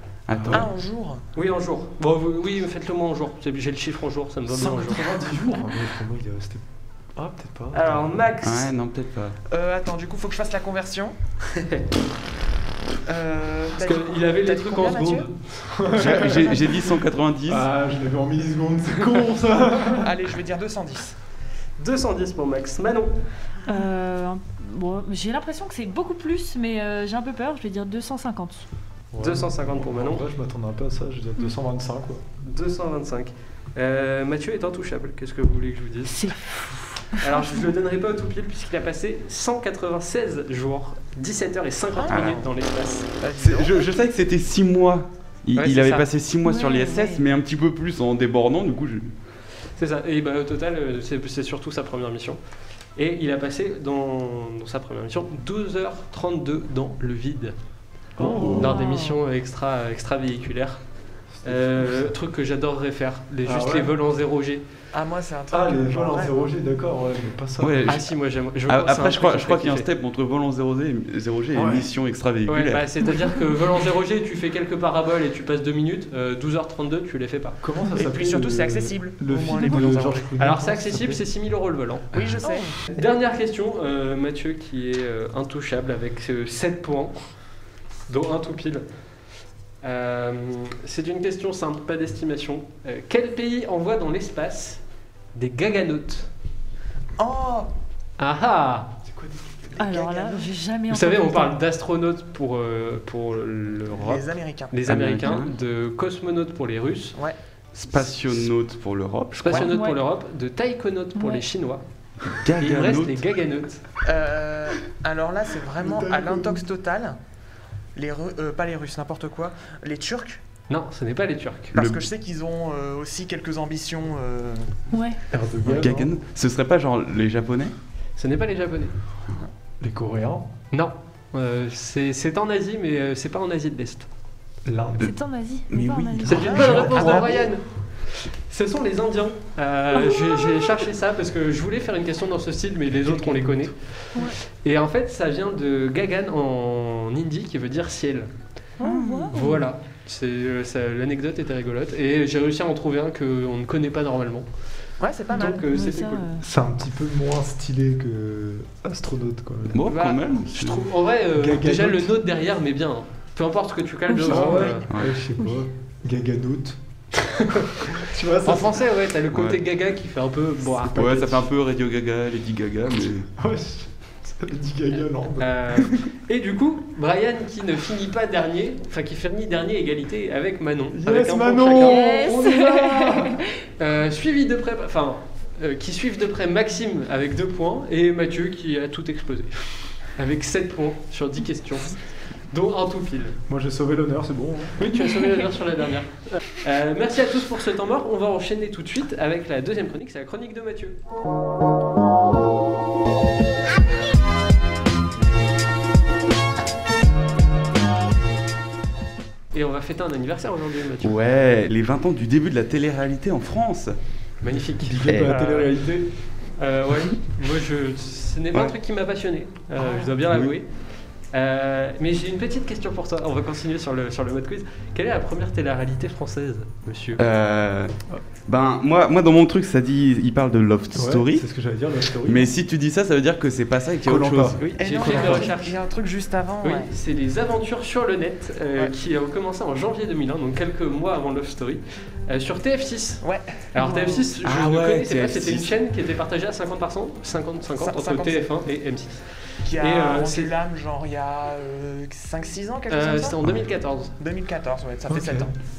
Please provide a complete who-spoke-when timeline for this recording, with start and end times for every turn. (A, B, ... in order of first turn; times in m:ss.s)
0:00.3-0:00.7 A
0:00.3-0:00.7 B
0:00.5-0:01.2 C
0:01.3-0:05.1 D
0:04.5-0:06.6 B
0:07.1-0:08.1 B
0:07.7-0:08.7 D
0:08.4-0:09.4 A
0:09.5-0:11.1 C
0:11.6-0:11.8 D
0:13.0-0:15.3 C
0:13.8-0:15.6 D
0:15.7-0:16.7 B
0:15.9-0:17.7 A
0:17.5-0:20.1 B
0:20.0-0:21.2 C
0:21.8-0:23.1 D
0:23.6-0:28.6 E
0:29.1-0:32.2 B
0:29.2-0:30.2 D
0:32.4-0:36.3 D
0:36.1-0:37.3 E
0:37.2-0:43.1 D
0:42.0-0:42.4 C
0:42.1-0:42.4 A
0:43.2-0:43.9 C
0:43.4-0:49.1 A
0:45.6-0:46.1 D
0:46.4-0:47.2 E
0:49.8-0:52.4 D
0:53.0-0:57.6 D
0:58.2-0:58.8 B
0:58.5-1:00.8 D
0:58.6-0:59.2 E
1:01.4-1:02.1 B
1:01.4-1:04.6 D
1:03.4-1:03.9 B
1:04.9-1:06.3 C
1:05.5-1:08.0 B
1:07.6-1:08.1 A
1:07.9-1:09.9 D
1:08.7-1:12.8 A
1:11.5-1:11.9 B
1:12.5-1:17.6 D
1:17.6-1:21.2 B
1:18.0-1:20.3 C
1:20.4-1:22.1 D
1:22.1-1:23.0 C
1:22.4-1:22.7 E
1:22.9-1:27.3 D
1:28.1-1:28.8 D
1:29.8-1:34.8 D
1:35.3-1:36.3 D
1:37.2-1:37.7 C
1:38.2-1:38.9 D
1:39.0-1:39.8 B
1:39.8-1:41.6 E
1:39.8-1:40.5 C
1:40.9-1:47.2 D
1:43.9-1:44.8 C
1:44.8-1:45.5 A
1:47.7-1:49.7 A
1:49.4-1:51.8 D
1:49.5-1:50.0 E
1:51.2-1:51.4 E
1:52.3-1:53.2 A
1:52.6-1:53.8 D
1:54.0-1:57.2 C
1:55.8-1:56.6 B
1:57.9-2:00.4 C
2:00.7-2:01.7 D
2:01.7-2:02.0 A
2:01.7-2:04.7 C
2:04.9-2:05.2 E
2:05.3-2:06.1 B
2:05.7-2:07.7 A
2:08.2-2:08.9 D
2:09.8-2:10.5 B
2:10.7-2:14.1 D
2:14.6-2:15.1 B
2:15.0-2:16.7 E
2:15.7-2:17.1 A
2:16.3-2:28.3 D
2:16.3-2:17.3 B
2:16.3-2:17.5 C
2:20.0-2:20.6 E
2:23.0-2:23.7 B
2:28.8-2:29.7 E
2:28.8-2:29.3 A
2:29.3-2:34.4 D
2:35.0-2:35.7 C
2:35.3-2:36.4 E
2:35.4-2:36.2 D
2:36.4-2:39.8 B
2:39.7-2:40.9 A
2:39.9-2:44.8 D
2:41.4-2:42.1 B
2:44.1-2:44.7 E
2:44.2-2:46.8 B
2:44.9-2:45.2 A
2:47.6-2:48.7 B
2:48.4-2:51.4 D
2:49.3-2:49.6 A
2:50.9-2:53.3 A
2:53.4-2:55.5 B
2:55.4-3:02.2 D
3:00.9-3:03.4 B
3:01.8-3:03.5 E
3:03.8-3:12.0 D
3:12.5-3:13.4 D
3:13.5-3:14.9 B
3:14.8-3:21.0 D
3:29.5-3:31.2 D
3:31.0-3:34.0 A
3:34.4-3:35.7 D
3:34.8-3:36.1 B
3:35.0-3:35.3 A
3:36.6-3:40.7 D
3:40.3-3:40.5 A
3:41.3-3:47.2 D
3:47.2-3:48.0 A
3:48.5-3:51.5 A
3:50.9-3:52.5 B
3:52.2-3:55.4 A
3:54.0-3:55.4 B
3:54.6-3:55.8 D
3:54.8-3:56.9 C
3:56.6-4:10.5 D
4:03.2-4:04.2 C
4:03.8-4:04.1 E
4:04.4-4:05.7 A
4:07.8-4:08.5 C
4:09.6-4:13.5 C
4:12.9-4:14.1 D
4:14.2-4:15.5 C
4:15.1-4:15.5 B